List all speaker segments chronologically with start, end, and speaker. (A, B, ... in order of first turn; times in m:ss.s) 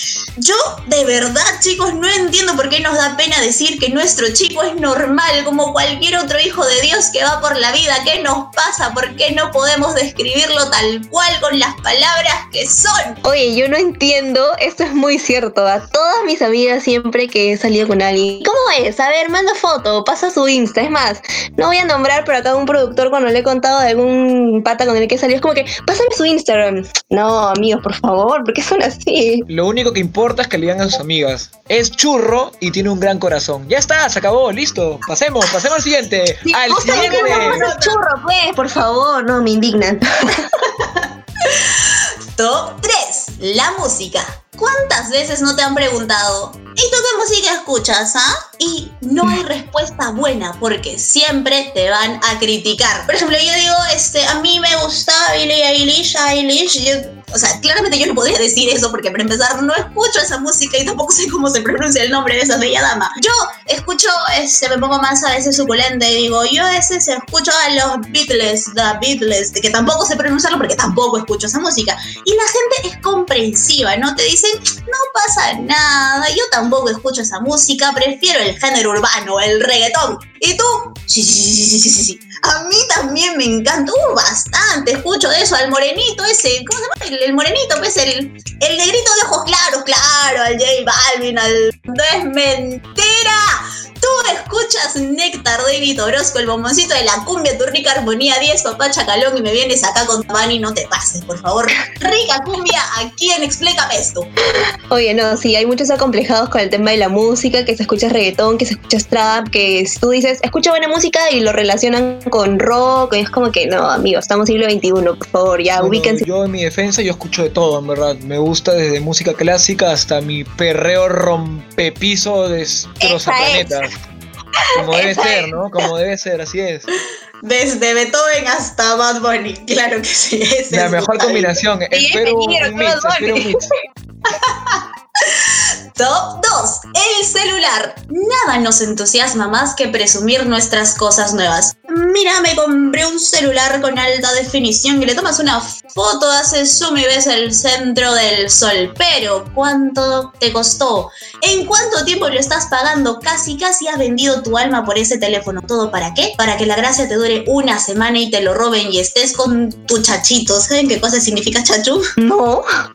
0:00.4-0:13.2 A
0:13.2-0:29.5 B
0:29.5-0:37.6 C
0:36.4-0:40.5 B
0:36.7-0:38.0 A
0:41.4-1:44.3 A
1:44.9-1:56.2 B
1:55.8-2:03.9 C
2:03.0-2:03.8 B
2:04.7-2:06.9 C
2:04.8-2:05.5 B
2:07.4-2:11.6 A
2:10.7-2:13.7 C
2:11.9-2:13.5 B
2:14.3-2:42.1 A
2:42.2-2:42.6 B